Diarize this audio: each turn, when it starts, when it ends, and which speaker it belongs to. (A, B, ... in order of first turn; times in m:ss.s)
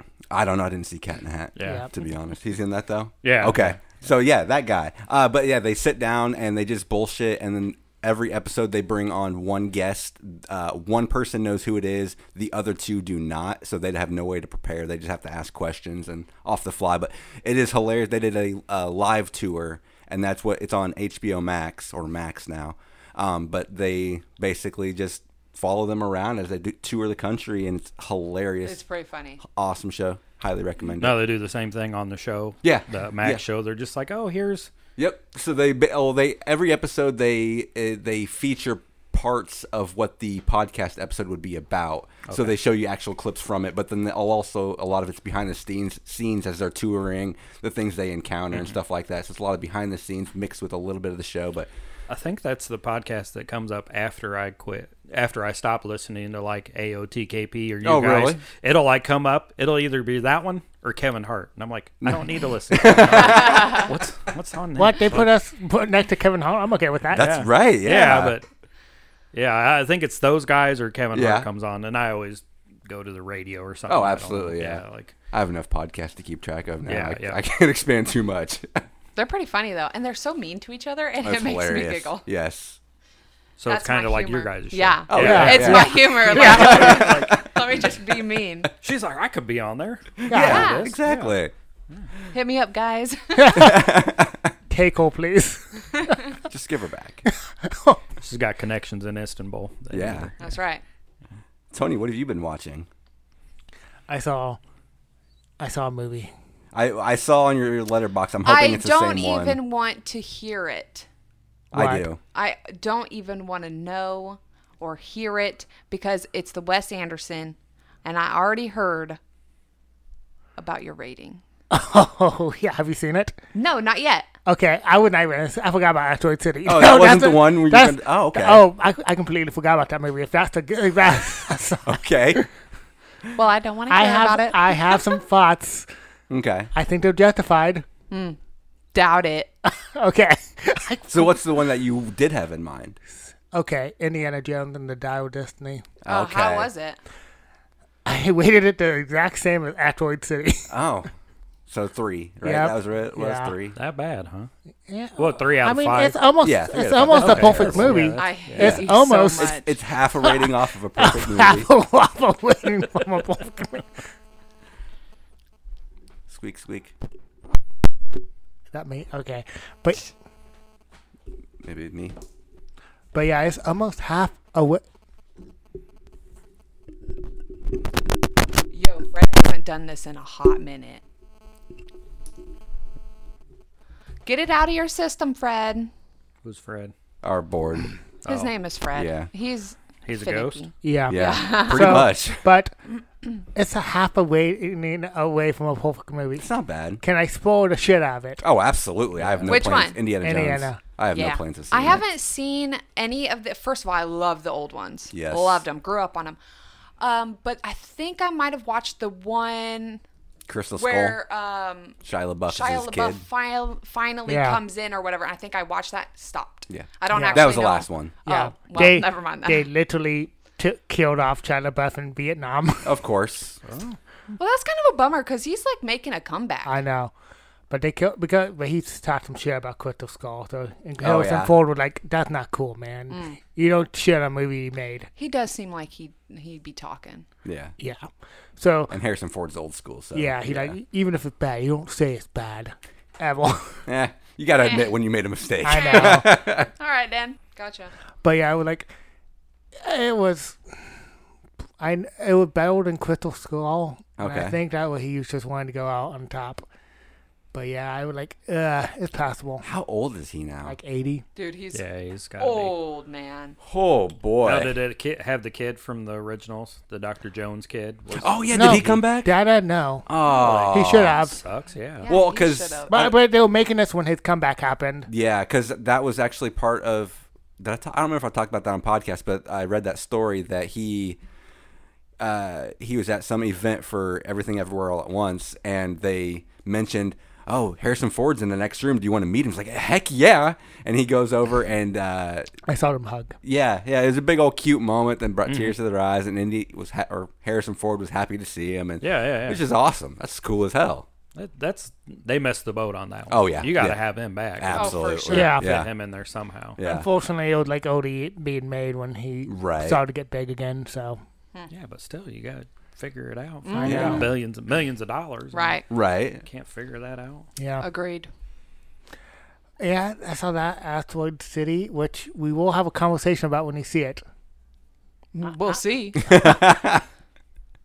0:00.3-0:28.8 A
0:01.6-0:01.9 B
0:01.6-0:01.9 C
0:03.2-0:03.9 B
0:28.6-0:29.4 D
0:29.4-0:31.2 A
0:31.0-0:34.7 B
0:32.6-0:33.4 A
0:35.0-0:51.7 A
0:42.3-0:42.5 B
0:52.1-1:05.3 B
0:57.8-0:58.4 A
1:02.0-1:03.8 A
1:03.2-1:03.9 D
1:04.8-1:07.3 C
1:07.1-1:08.4 A
1:07.2-1:08.4 B
1:09.3-1:15.1 B
1:11.1-1:11.5 A
1:13.9-1:18.8 A
1:16.8-1:17.4 B
1:19.2-1:22.2 D
1:21.2-1:22.8 A
1:23.6-1:27.5 B
1:23.7-1:28.7 D
1:25.1-1:27.4 A
1:25.2-1:26.6 C
1:28.8-1:31.4 B
1:30.2-1:31.5 A
1:30.3-1:30.7 C
1:30.4-1:30.9 D
1:32.3-1:33.6 D
1:33.4-1:33.8 C
1:33.6-1:34.5 A
1:34.7-1:35.9 C
1:36.4-1:37.2 A
1:37.3-1:38.0 C
1:38.2-1:40.6 B
1:39.9-1:40.3 A
1:40.4-1:40.8 D
1:41.7-1:42.9 A
1:44.1-1:44.6 C
1:45.6-1:46.3 C
1:46.7-1:49.6 A
1:48.4-1:51.1 D
1:51.7-1:52.2 A
1:51.7-1:52.1 C
1:52.3-1:59.2 D
2:00.6-2:01.4 D
2:01.7-2:03.4 C
2:03.5-2:04.3 D
2:04.5-2:12.5 C
2:06.7-2:08.6 A
2:11.9-2:12.5 A
2:13.3-2:15.2 D
2:13.9-2:15.9 C
2:16.3-2:16.7 A
2:16.7-2:17.9 C
2:18.1-2:18.4 D
2:18.9-2:19.5 D
2:19.6-2:21.4 C
2:21.1-2:23.0 A
2:23.5-2:25.9 C
2:26.0-2:26.7 A
2:26.1-2:27.0 D
2:28.0-2:30.7 C
2:30.7-2:31.1 A
2:31.7-2:33.8 A
2:32.4-2:33.6 C
2:33.8-2:34.5 B
2:34.9-2:39.6 C
2:35.2-2:36.2 B
2:36.4-2:38.0 A
2:37.1-2:38.7 B
2:38.2-2:39.7 D
2:38.6-2:38.8 A
2:39.4-2:41.7 A
2:40.2-2:40.5 C
2:41.0-2:44.0 C
2:46.3-2:46.9 A
2:48.7-2:50.1 C
2:51.6-2:52.2 A
2:53.1-2:54.8 C
2:58.7-3:01.0 D
3:04.2-3:05.9 D
3:06.4-3:06.9 B
3:07.2-3:07.9 A
3:08.2-3:12.1 D
3:08.3-3:08.5 B
3:08.9-3:09.3 A
3:10.0-3:10.7 B
3:10.8-3:12.7 C
3:11.1-3:12.5 A
3:13.5-3:16.5 C
3:16.4-3:17.0 A
3:17.0-3:18.4 C
3:18.4-3:22.0 A
3:19.2-3:19.8 B
3:19.5-3:20.0 D
3:20.2-3:20.8 C
3:21.1-3:26.4 D
3:25.1-3:25.6 A
3:27.0-3:30.0 D
3:30.5-3:31.2 A
3:30.8-3:39.7 D
3:32.0-3:33.2 A
3:34.3-3:34.6 C
3:36.7-3:38.2 A
3:37.1-3:37.5 C
3:38.3-3:43.0 C
3:42.8-3:43.6 A
3:43.6-3:44.0 B
3:44.4-3:46.8 D
3:46.6-3:47.1 C
3:47.7-3:55.1 C
3:51.0-3:51.5 A
3:53.1-3:53.4 D
3:55.2-3:57.3 D
3:57.4-3:57.7 A
3:57.8-3:58.9 C
3:58.9-4:00.8 A
4:00.1-4:03.8 C
4:03.9-4:06.7 A
4:04.6-4:04.9 D
4:05.6-4:06.3 C
4:05.7-4:07.9 D
4:08.2-4:08.9 C
4:09.8-4:10.6 C
4:11.8-4:16.7 C
4:14.2-4:14.6 A
4:17.5-4:19.7 C
4:19.6-4:20.8 A
4:20.6-4:21.2 C
4:21.4-4:21.8 D
4:21.7-4:22.8 B
4:22.4-4:23.6 D
4:23.6-4:24.8 A
4:24.4-4:29.0 B
4:28.2-4:29.3 A
4:28.5-4:30.1 C
4:30.1-4:31.2 A
4:30.2-4:32.1 B
4:30.7-4:31.4 C
4:32.0-4:33.1 D
4:32.1-4:33.2 A
4:32.9-4:35.1 C
4:35.1-4:41.2 A
4:42.2-4:52.5 A
4:52.7-4:53.4 C
4:53.4-5:01.1 A
4:55.5-4:55.8 B
4:59.0-4:59.6 B
5:01.4-5:06.8 B
5:03.3-5:04.0 A
5:04.6-5:05.9 A
5:04.7-5:05.5 D
5:05.3-5:05.8 C
5:06.8-5:07.1 A
5:06.8-5:11.2 C
5:09.5-5:10.0 A
5:11.7-5:15.8 B
5:13.6-5:14.3 D
5:13.8-5:14.2 C
5:13.8-5:14.4 A
5:15.5-5:15.8 D
5:15.9-5:16.4 A
5:16.4-5:17.5 B
5:17.6-5:17.9 C
5:17.8-5:18.3 D
5:19.8-5:24.2 C
5:25.4-5:26.5 D
5:26.2-5:27.0 A